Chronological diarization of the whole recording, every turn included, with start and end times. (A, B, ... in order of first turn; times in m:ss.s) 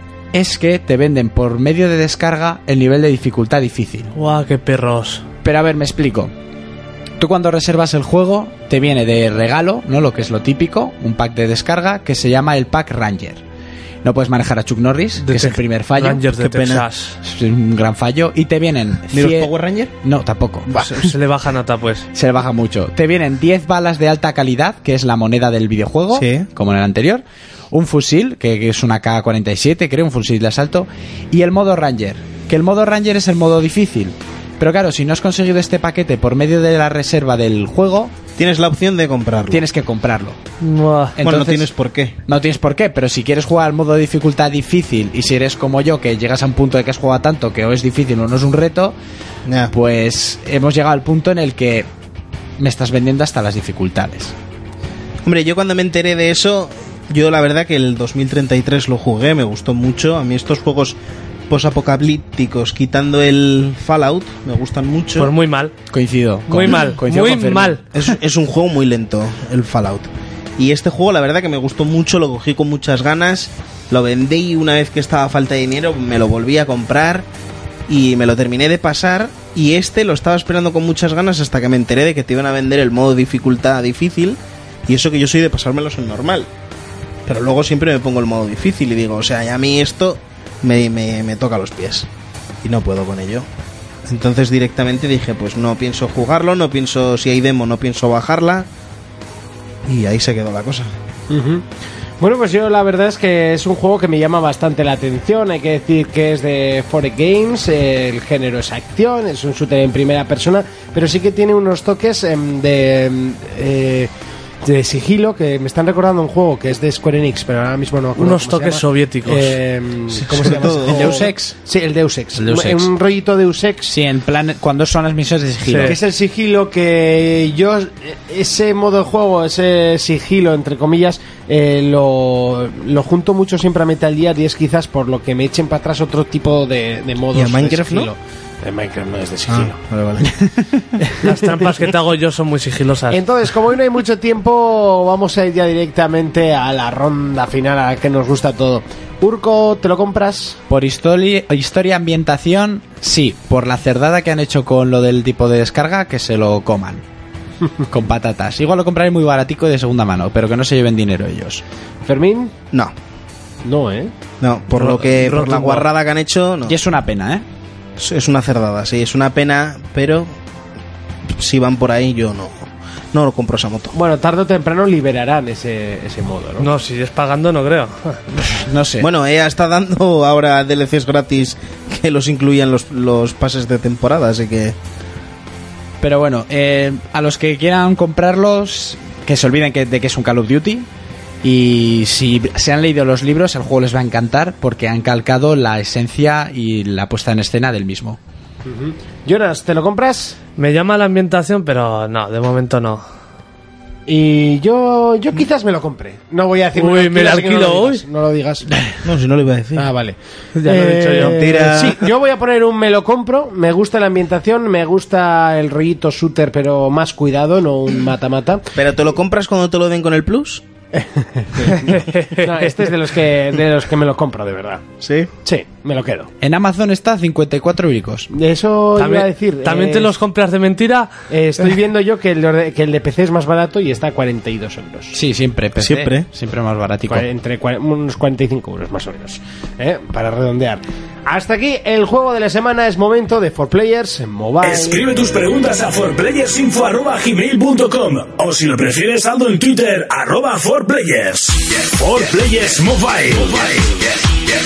0:00.3-0:04.1 A
0:04.2-0:05.2 B
0:05.4-0:06.3 A
0:07.2-0:13.4 A
0:14.0-0:16.5 A
0:15.2-0:17.2 B
0:16.5-0:16.8 C
0:17.2-0:19.5 A
0:19.1-0:19.9 C
0:20.0-0:20.9 A
0:20.8-0:22.1 B
0:22.1-0:38.2 A
0:26.1-0:26.5 C
0:38.4-0:39.6 C
0:39.5-0:40.4 A
0:40.6-0:41.2 B
0:41.2-0:41.7 A
0:41.2-0:42.1 C
0:42.3-0:49.0 A
0:49.4-0:49.7 C
0:49.7-0:51.9 A
0:52.6-0:54.4 A
0:55.2-1:01.0 C
1:01.5-1:05.3 C
1:05.2-1:05.7 B
1:05.9-1:07.8 A
1:06.5-1:07.8 B
1:07.9-1:17.3 C
1:17.9-1:26.5 C
1:27.3-1:32.1 C
1:32.6-1:33.5 C
1:34.1-1:38.7 C
1:39.9-1:40.9 C
1:41.3-1:41.6 D
1:42.2-1:54.1 D
1:54.6-2:03.9 D
1:58.2-1:59.6 B
2:00.1-2:01.3 C
2:00.8-2:01.5 A
2:02.4-2:02.9 A
2:03.9-2:06.0 A
2:05.7-2:06.0 B
2:05.8-2:19.7 D
2:17.3-2:18.1 C
2:19.5-2:20.4 C
2:20.2-2:20.7 A
2:21.2-2:23.2 B
2:23.1-2:30.6 D
2:30.7-2:37.0 A
2:37.9-2:41.6 A
2:42.0-2:42.6 D
2:43.6-2:44.1 D
2:44.4-2:46.7 C
2:44.8-2:45.8 B
2:46.7-2:47.4 A
2:48.0-2:50.3 C
2:51.3-2:53.9 C
2:53.9-2:56.7 D
2:56.6-2:58.2 B
2:58.6-2:59.1 A
2:59.0-3:04.7 C
3:06.0-3:10.9 A
3:11.4-3:18.2 A
3:18.6-3:20.4 D
3:20.6-3:23.0 B
3:24.1-3:28.7 D
3:26.7-3:28.0 B
3:29.0-3:29.9 C
3:29.8-3:38.7 D
3:30.6-3:31.4 B
3:31.2-3:32.0 C
3:38.8-3:40.6 C
3:41.0-3:44.9 D
3:41.8-3:42.7 B
3:45.0-3:45.3 C
3:45.4-3:46.3 D
3:46.4-3:48.3 A
3:48.3-3:50.1 D
3:49.0-3:51.1 B
3:51.3-3:55.1 D
3:55.1-3:57.3 A
3:55.8-3:56.3 C
3:57.1-4:05.1 D
4:04.6-4:14.1 E